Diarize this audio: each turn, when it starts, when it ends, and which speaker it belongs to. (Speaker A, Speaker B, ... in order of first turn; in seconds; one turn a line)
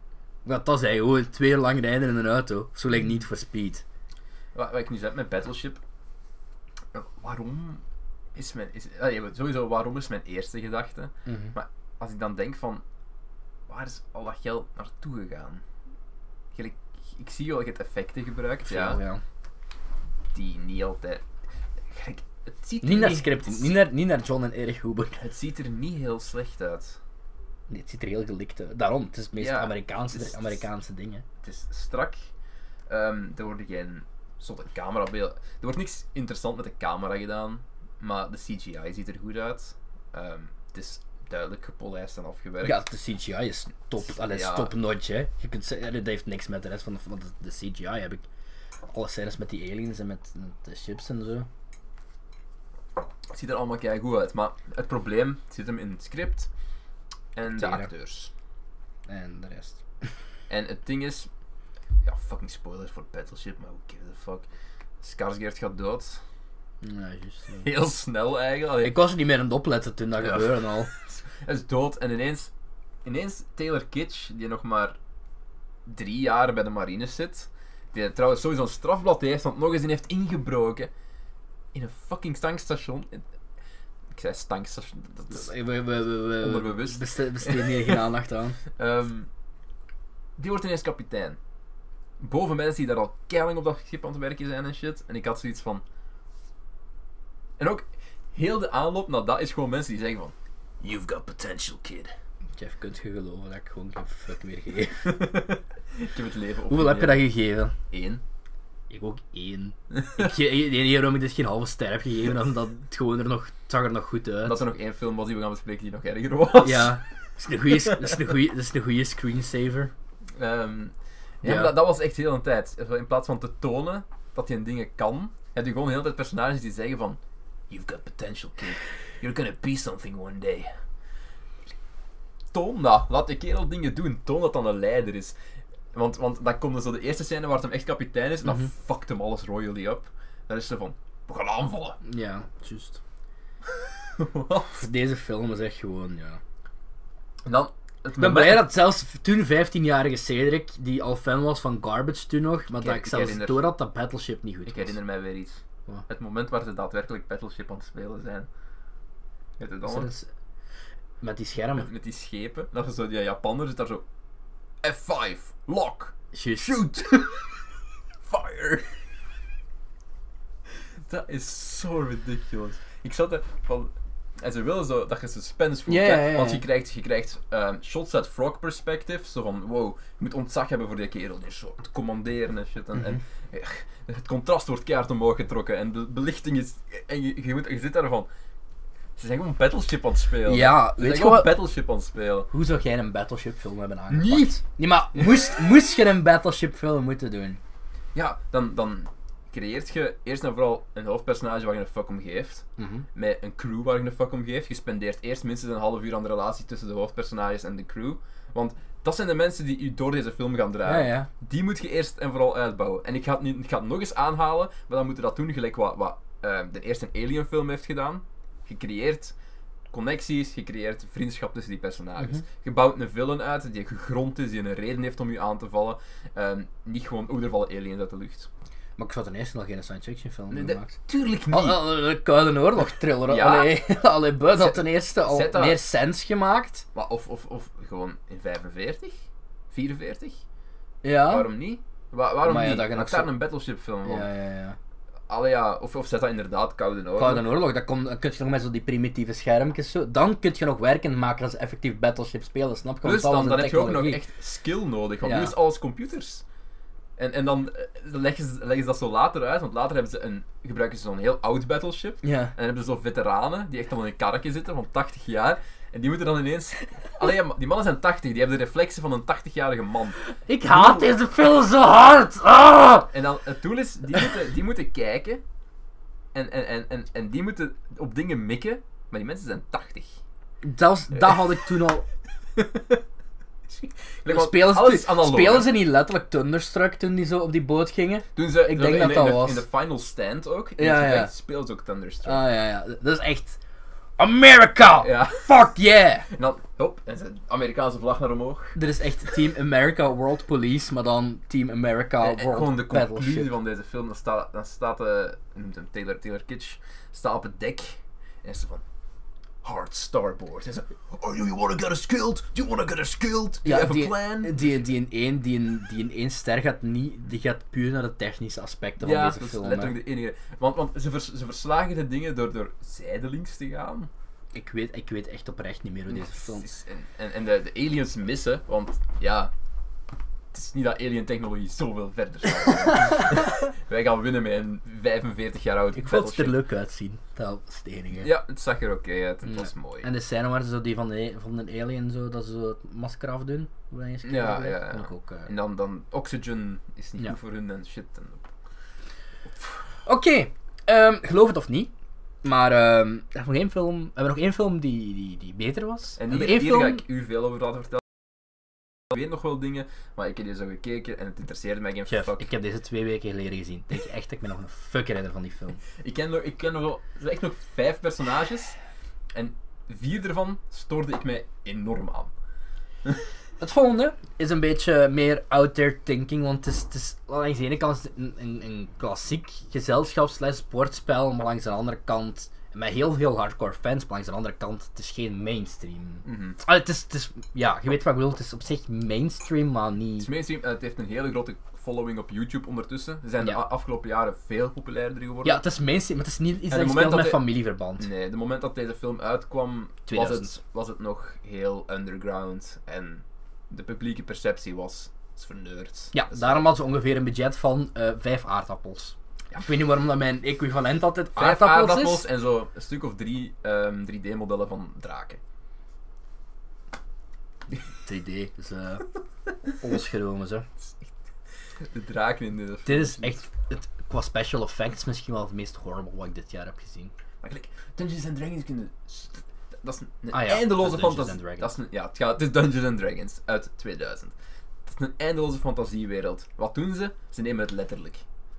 Speaker A: 0.4-3.8
Speaker B: 4.5-5.8
Speaker B: 6.9-7.8
Speaker B: 8.3-12.8
Speaker A: 11.2-11.5
Speaker B: 13.7-15.6
Speaker B: 16.5-19.0
Speaker A: 18.6-19.2
Speaker B: 20.3-21.2
Speaker B: 21.9-23.7
Speaker A: 22.8-25.1
Speaker B: 25.1-27.0
Speaker A: 27.7-31.2
Speaker B: 29.4-30.7
Speaker B: 31.4-32.3
Speaker B: 32.9-42.8
Speaker A: 42.6-48.2
Speaker B: 44.1-44.7
Speaker A: 48.9-51.5
Speaker B: 53.3-56.5
Speaker B: 57.3-58.3
Speaker A: 57.5-57.9
Speaker A: 59.1-59.8
Speaker B: 60.5-61.3
Speaker B: 62.0-64.5
Speaker B: 65.0-66.2
Speaker A: 66.8-67.7
Speaker B: 67.6-69.0
Speaker A: 68.8-70.9
Speaker B: 70.2-72.5
Speaker B: 73.0-75.0
Speaker B: 75.8-80.9
Speaker B: 81.7-83.2
Speaker B: 84.1-85.5
Speaker A: 85.3-88.6
Speaker B: 86.4-88.1
Speaker B: 88.8-89.3
Speaker B: 90.4-91.4
Speaker B: 92.2-95.8
Speaker B: 97.6-102.1
Speaker A: 102.6-105.1
Speaker B: 105.0-107.2
Speaker A: 106.7-107.7
Speaker B: 107.9-108.2
Speaker A: 108.9-114.6
Speaker B: 109.9-110.3
Speaker B: 114.4-117.0
Speaker A: 116.6-119.9
Speaker B: 117.7-118.2
Speaker B: 120.4-130.7
Speaker A: 121.4-121.7
Speaker B: 132.5-135.3
Speaker B: 135.9-142.0
Speaker A: 142.0-143.0
Speaker B: 143.7-144.8
Speaker A: 144.7-146.4
Speaker B: 147.4-148.7
Speaker A: 148.2-155.0
Speaker B: 152.7-153.8
Speaker B: 154.7-158.5
Speaker B: 159.6-160.1
Speaker A: 159.8-160.3
Speaker A: 161.2-161.9
Speaker B: 161.8-164.0
Speaker B: 164.8-167.6
Speaker A: 166.3-166.9
Speaker B: 168.2-168.9
Speaker B: 171.1-188.3
Speaker A: 175.9-176.6
Speaker B: 189.2-192.5
Speaker A: 190.5-191.6
Speaker A: 192.5-197.6
Speaker B: 194.1-194.6
Speaker B: 195.1-195.5
Speaker B: 198.1-219.3
Speaker A: 202.8-203.1
Speaker A: 210.8-211.3
Speaker B: 219.9-228.5
Speaker A: 229.0-231.0
Speaker B: 230.5-231.9
Speaker A: 231.5-236.8
Speaker B: 233.2-233.9
Speaker B: 234.4-235.8
Speaker B: 236.9-239.2
Speaker B: 239.7-240.4
Speaker A: 241.0-241.5
Speaker B: 241.2-244.3
Speaker A: 242.4-243.4
Speaker A: 244.0-244.8
Speaker B: 245.3-247.5
Speaker A: 247.2-254.2
Speaker B: 253.0-256.4
Speaker A: 255.2-255.5
Speaker B: 257.2-270.2
Speaker A: 262.2-262.5
Speaker A: 270.3-273.1
Speaker B: 270.7-271.1
Speaker B: 273.1-275.4
Speaker B: 276.3-280.1
Speaker A: 280.6-282.0
Speaker B: 281.1-281.6
Speaker B: 282.6-283.0
Speaker B: 283.7-285.7
Speaker A: 284.2-289.6
Speaker B: 288.3-292.4
Speaker A: 290.8-291.3
Speaker A: 292.2-293.6
Speaker A: 294.2-296.3
Speaker B: 294.9-295.6
Speaker B: 296.3-298.8
Speaker A: 298.7-303.5
Speaker B: 302.2-308.8
Speaker B: 309.6-314.8
Speaker A: 313.6-319.9
Speaker B: 319.0-324.1
Speaker A: 324.5-326.6
Speaker B: 326.1-329.5
Speaker B: 330.5-336.6
Speaker A: 335.9-338.3
Speaker B: 338.2-340.1
Speaker A: 339.4-345.5
Speaker B: 344.2-348.5
Speaker A: 350.0-351.9
Speaker A: 352.4-357.0
Speaker B: 356.2-358.1
Speaker B: 359.1-362.5
Speaker A: 362.1-365.8
Speaker B: 366.0-368.8
Speaker B: 369.3-372.3
Speaker A: 373.6-390.3
Speaker B: 386.2-386.6
Speaker B: 390.2-395.6
Speaker A: 395.4-398.1
Speaker B: 396.7-406.7
Speaker A: 400.1-400.5
Speaker A: 406.1-412.2
Speaker B: 411.4-415.4
Speaker A: 418.0-419.1
Speaker A: 419.8-420.6
Speaker B: 421.8-423.4
Speaker A: 422.9-427.1
Speaker B: 427.4-434.3
Speaker A: 430.3-431.7
Speaker B: 434.9-438.2